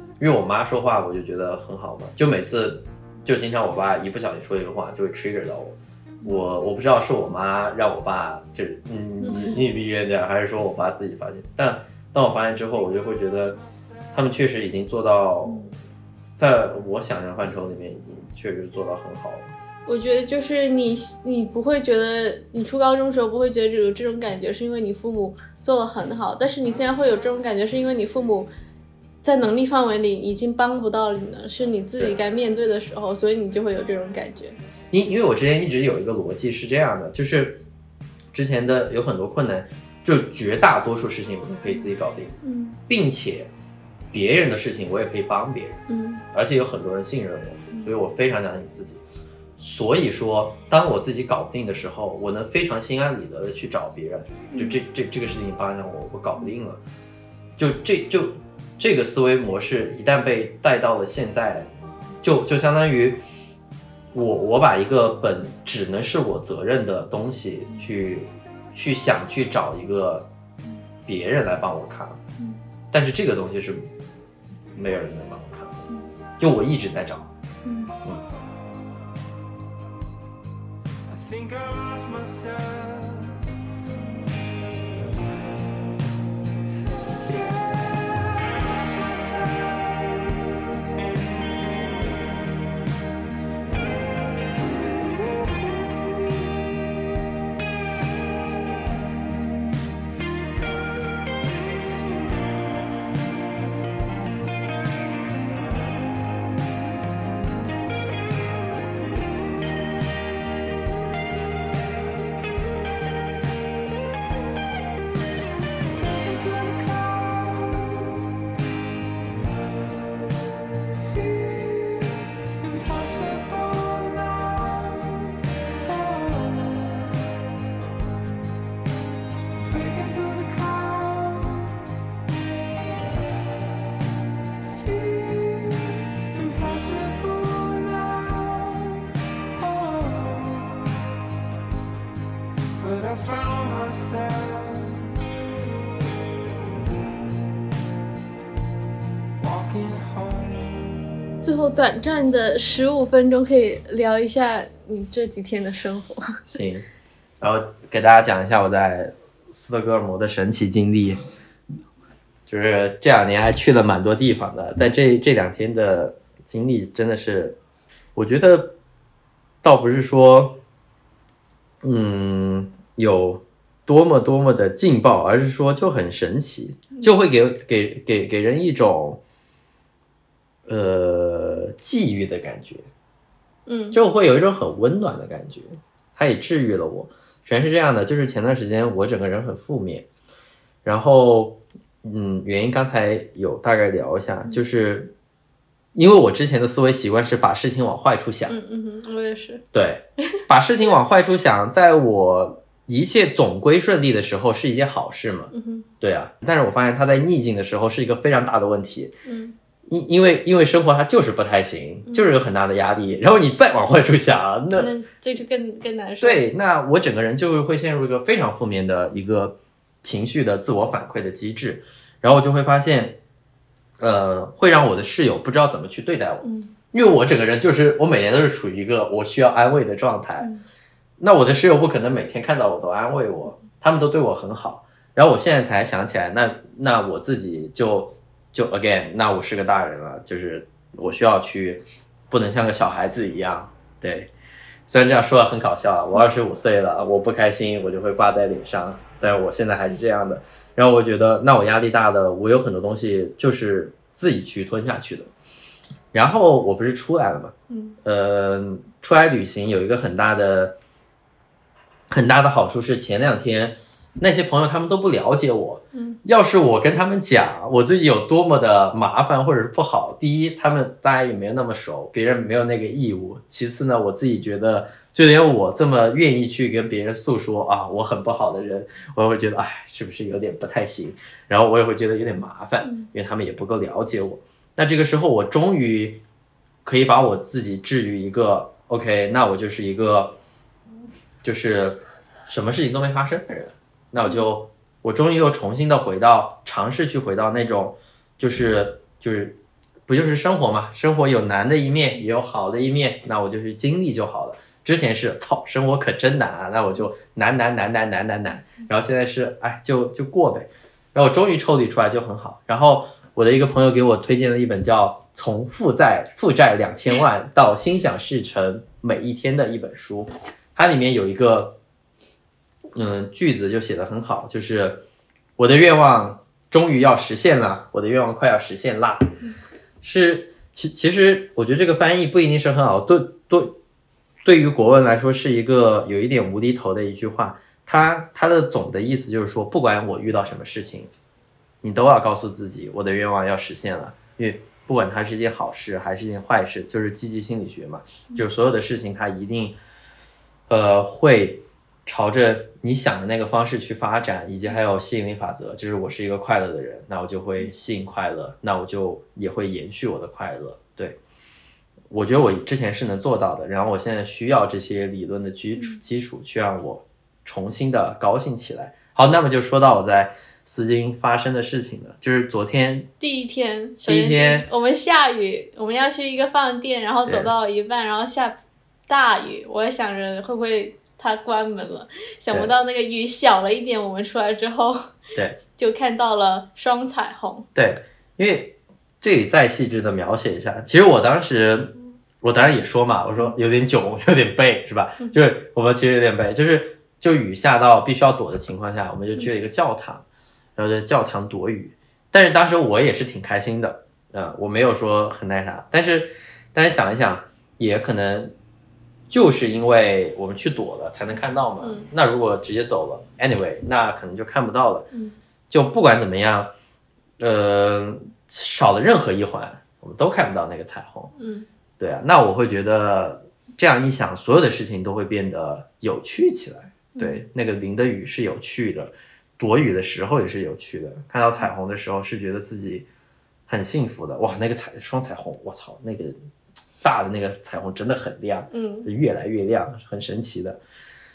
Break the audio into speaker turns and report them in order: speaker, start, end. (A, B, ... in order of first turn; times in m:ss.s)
0:00.2-0:13.6 A
0:09.2-0:09.5 B
0:14.1-0:15.7 A
0:15.5-0:15.7 B
0:16.4-0:19.5 A
0:19.9-0:28.5 B
0:29.2-0:34.6 B
0:34.9-0:37.6 A
0:38.3-0:42.4 A
0:42.4-0:42.8 B
0:42.9-0:43.5 A
0:44.1-0:49.0 A
0:45.9-0:46.2 B
0:49.6-0:56.8 A
0:54.5-0:54.8 B
0:57.6-1:01.7 A
1:02.2-1:03.2 A
1:04.1-1:10.3 A
1:11.0-1:12.2 A
1:12.9-1:13.9 A
1:14.7-1:15.8 A
1:16.4-1:17.3 A
1:17.6-1:18.0 B
1:21.1-1:23.4 C
1:27.2-1:30.6 C
1:35.7-1:36.2 C
1:55.8-1:58.3 C
2:01.0-2:07.1 C
2:09.6-2:11.8 C
2:14.6-2:20.8 C
2:22.8-2:25.1 C
2:29.4-2:31.0 C
2:31.4-2:36.4 B
2:36.5-2:36.9 A
2:37.4-2:41.2 A
2:42.5-2:47.6 A
2:48.1-2:48.8 A
2:49.6-2:50.6 A
2:51.8-2:59.2 A
3:00.7-3:02.9 A
3:03.7-3:04.0 B
3:03.9-3:10.1 A
3:10.8-3:15.1 A
3:15.9-3:18.6 A
3:18.5-3:19.6 B
3:19.7-3:29.1 A
3:25.5-3:25.9 B
3:29.3-3:29.6 B
3:29.9-3:34.9 A
3:34.7-3:36.4 B
3:36.2-3:43.2 A
3:44.0-3:50.5 A
3:46.4-3:46.7 B
3:51.2-4:04.3 A
4:04.9-4:15.3 A
4:16.1-4:20.8 A
4:17.7-4:18.0 B
4:22.1-4:46.2 A
4:25.9-4:26.2 B
4:42.8-4:43.1 B
4:46.8-4:50.4 A
4:51.4-5:21.8 A
5:22.9-5:25.0 A
5:25.6-5:29.3 A
5:30.0-5:33.8 A
5:34.4-5:41.1 A
5:41.8-5:49.8 A
5:50.7-6:01.2 A
6:02.1-6:13.1 A
6:13.2-6:25.1 B
6:14.0-6:14.7 A
6:17.3-6:17.5 A
6:25.3-6:25.6 A
6:25.7-6:27.7 B
6:27.7-6:40.2 A
6:40.8-6:48.5 A
6:49.3-6:55.1 A
6:51.8-6:52.1 B
6:55.7-6:56.7 A
6:57.4-7:01.3 A
7:01.4-7:01.7 B
7:02.0-7:13.0 A
7:07.2-7:07.4 B
7:13.7-7:16.4 A
7:17.0-7:20.8 A
7:18.7-7:19.1 B